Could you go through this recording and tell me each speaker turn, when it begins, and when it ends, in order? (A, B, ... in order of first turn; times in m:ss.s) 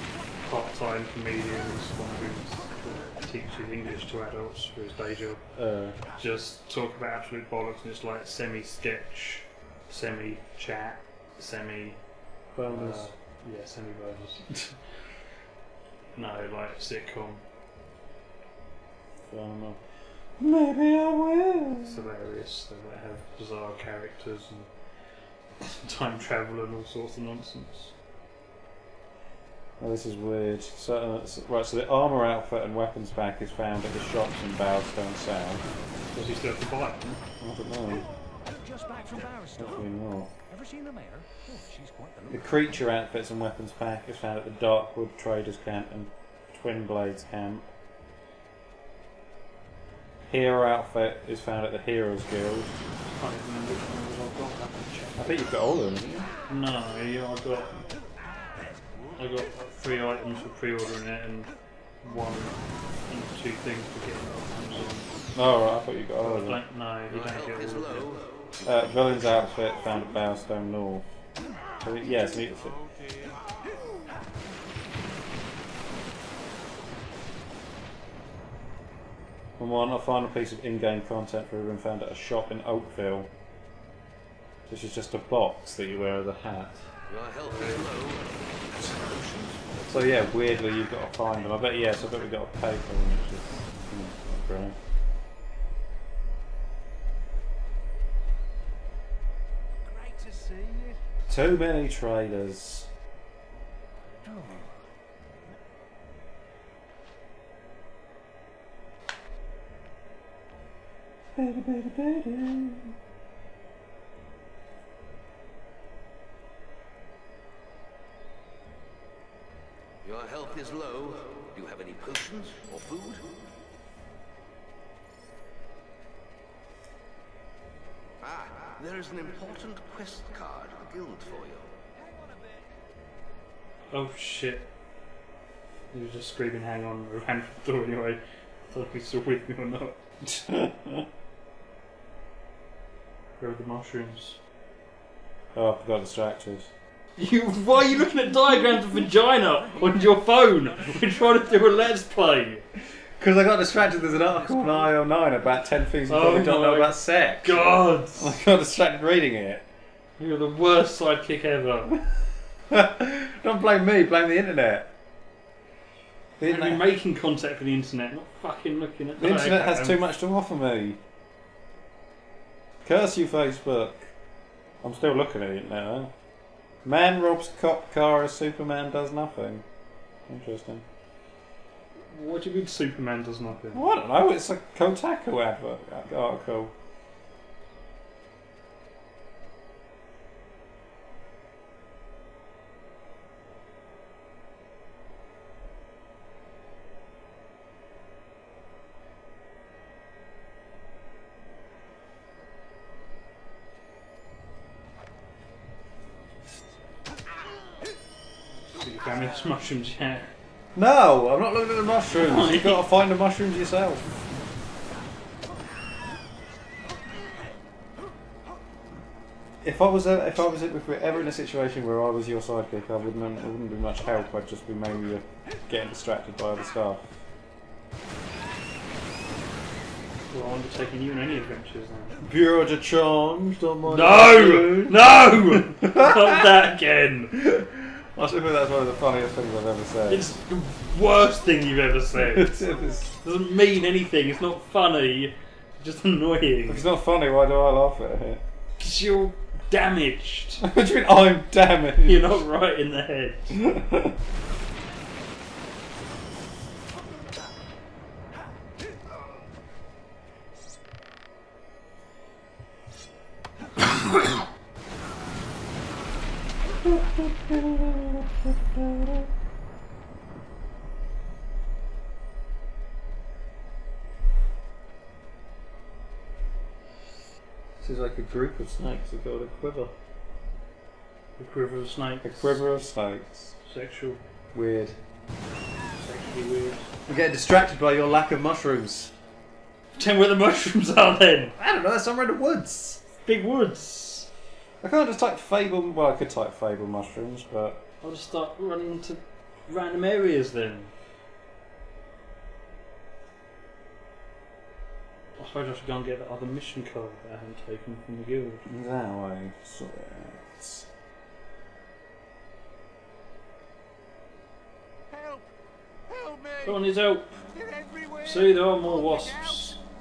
0:00.4-0:05.5 A
0:05.5-0:06.0 B
0:06.0-0:12.0 A
0:12.5-0:13.1 B
0:12.6-0:15.1 A
0:16.1-0:17.4 A
0:19.3-0:19.8 B
0:20.4-0:22.0 B
0:21.8-0:24.7 A
0:25.6-0:27.9 A
0:29.8-0:35.6 B
0:36.1-0:37.2 A
0:37.4-0:38.1 B
0:38.4-0:39.9 C
0:39.6-0:40.3 B
0:40.5-0:42.5 C
0:42.3-0:47.7 B
0:50.3-0:52.8 B
0:53.1-0:55.3 A
0:55.2-0:56.3 B
0:56.5-0:57.7 A
0:58.6-0:59.1 C
0:59.2-1:05.1 A
1:05.3-1:06.6 B
1:06.2-1:08.3 A
1:07.1-1:08.7 D
1:08.6-1:11.0 B
1:11.8-1:12.8 B
1:12.9-1:13.4 C
1:19.6-1:23.3 B
1:24.7-1:26.9 B
1:27.2-1:28.3 D
1:27.3-1:28.2 A
1:28.9-1:29.6 D
1:29.9-1:34.8 B
1:31.5-1:32.0 C
1:39.8-1:41.0 C
1:41.3-1:42.9 B
1:44.2-1:44.8 C
1:51.4-1:52.9 B
2:00.1-2:03.2 D
2:08.8-2:11.5 D
2:09.1-2:09.4 C
2:12.0-2:12.7 C
2:13.9-2:14.7 A
2:15.9-2:20.0 A
2:20.2-2:21.0 B
2:23.4-2:24.4 A
2:25.5-2:26.7 B
2:27.2-2:32.6 A
2:28.7-2:29.0 B
2:29.6-2:31.7 C
2:32.8-2:39.6 B
2:33.9-2:34.8 C
2:36.1-2:38.4 A
2:40.2-2:42.0 A
2:42.7-2:44.9 B
2:46.4-2:46.9 B
2:46.4-2:50.0 A
2:49.2-2:51.0 B
2:52.8-2:54.1 B
2:54.8-2:56.1 B
2:56.8-2:59.6 B
3:00.3-3:00.8 B
3:02.1-3:03.8 A
3:03.7-3:06.7 B
3:28.7-3:30.3 A
3:30.7-3:34.2 B
3:32.2-3:32.8 A
3:39.6-3:47.2 B
3:50.3-3:52.2 A
3:52.2-3:56.5 B
3:53.8-3:57.4 A
3:57.3-4:00.3 B
4:00.1-4:02.6 A
4:02.1-4:03.1 B
4:03.2-4:06.8 A
4:06.7-4:08.4 B
4:08.8-4:10.6 A
4:10.6-4:12.4 B
4:12.0-4:13.6 A
4:13.5-4:14.1 B
4:26.8-4:29.3 B
4:37.8-4:39.9 B
4:41.4-4:42.6 A
4:42.2-4:43.6 B
4:43.6-4:44.2 A
4:44.5-4:45.0 B
4:46.0-4:46.9 A
4:47.1-4:49.1 B
4:50.0-4:51.6 A
4:51.6-4:53.0 B
4:53.2-4:54.3 A
4:54.8-4:57.8 B
4:58.0-5:00.9 A
5:05.4-5:08.6 A
5:08.6-5:10.9 B
5:16.6-5:17.4 A
5:17.6-5:18.0 C
5:18.2-5:19.8 A